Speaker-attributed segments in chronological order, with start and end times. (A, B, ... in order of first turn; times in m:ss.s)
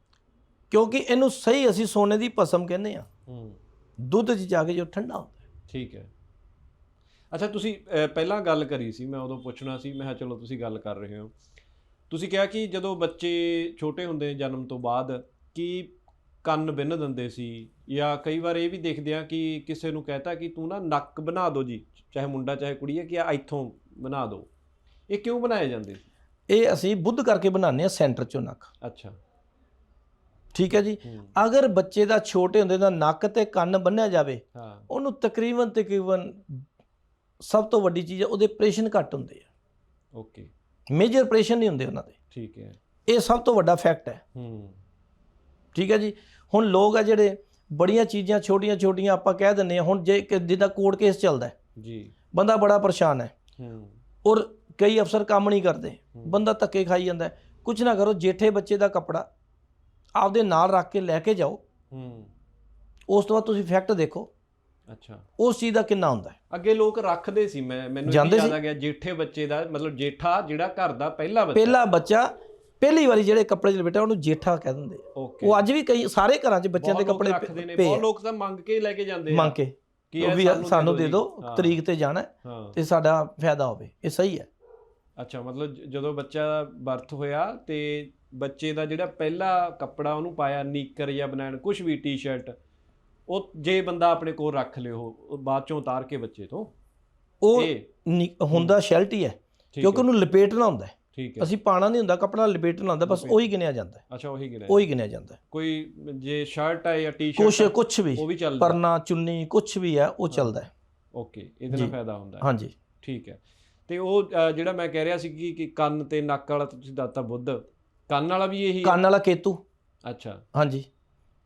0:00.7-0:03.1 A
0:03.3-0:03.6 B
0:04.0-0:05.4 A
0:05.7-0:06.1 B
0:07.3-0:11.3 B
0:12.1-0:24.5 B
0:25.1-0:26.1 B
0:26.5-0:28.7 A
0:28.8-0:29.2 B
0:30.5-0:36.6 A
0:31.0-0:31.3 B
0:34.5-0:34.9 B
0:37.4-0:39.4 A
0:40.1-0:40.5 B
0:40.9-0:42.1 A
0:42.3-0:42.8 B
0:43.1-0:44.2 A
0:44.3-0:44.8 B
0:45.7-0:51.5 A
0:51.8-0:52.1 B
0:52.3-0:53.3 A
0:53.6-0:54.0 B
0:54.2-0:59.3 A
0:56.1-0:56.4 B
1:00.2-1:01.6 A
1:01.9-1:02.3 B
1:03.1-1:04.3 A
1:04.9-1:05.3 B
1:05.4-1:06.4 A
1:06.5-1:11.8 B
1:08.0-1:08.6 A
1:11.5-1:18.0 A
1:15.1-1:15.6 B
1:16.8-1:19.6 B
1:19.3-1:24.5 A
1:20.1-1:21.8 B
1:22.4-1:22.8 B
1:25.2-1:32.5 B
1:33.3-1:36.7 B
1:37.4-1:44.0 A
1:37.5-1:37.9 B
1:38.5-1:38.8 B
1:39.7-1:40.1 B
1:41.1-1:41.5 B
1:43.0-1:43.5 B
1:44.1-1:44.8 B
1:44.7-1:45.4 A
1:45.5-1:48.8 B
1:47.4-1:50.7 A
1:51.1-1:52.5 B
1:51.7-1:52.7 A
1:53.0-1:59.0 B
1:58.8-1:59.6 A
2:00.0-2:00.4 B
2:00.5-2:00.9 A